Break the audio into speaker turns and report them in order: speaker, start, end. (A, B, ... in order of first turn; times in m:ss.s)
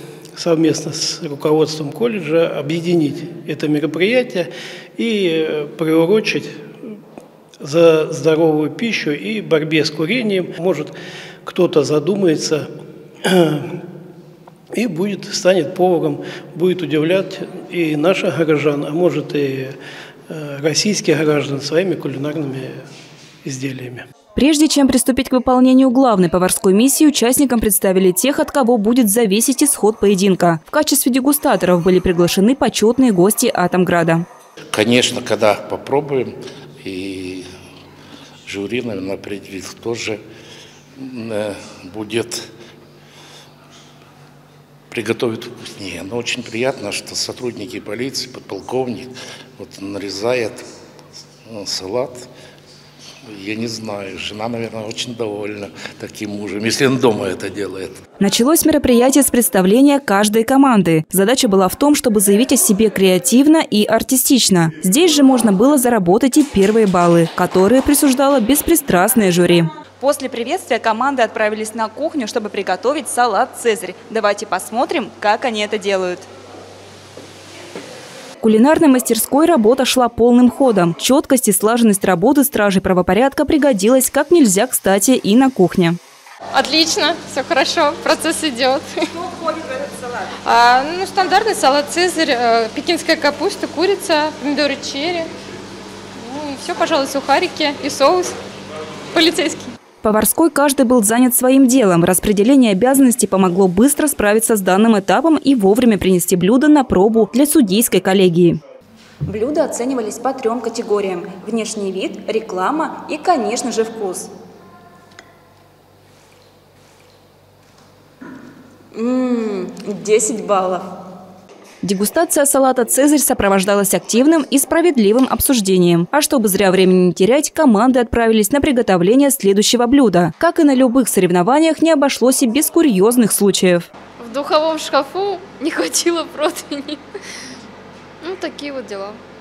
0:00.4-0:06.5 A
0:07.6-0:10.9 A
0:11.4-0:12.7 A
0:13.2-0:13.8 A
0:14.7-0:19.7 A
0:20.3-0:22.8 A
0:23.4-0:24.0 A
0:24.3-0:34.2 B
0:34.7-0:37.4 C
0:38.4-0:40.2 C
0:41.0-0:42.5 C
0:44.9-0:50.6 C
0:51.5-0:52.3 C
0:53.2-0:58.0 C
0:58.2-1:16.3 B
1:18.4-1:26.0 B
1:26.5-1:29.7 D
1:30.4-1:35.3 D
1:36.2-1:38.3 D
1:39.1-1:39.7 D
1:40.0-1:48.6 B
1:49.2-1:54.3 B
1:58.9-2:00.9 B
2:01.8-2:13.9 B
2:14.2-2:17.0 D
2:18.2-2:19.2 D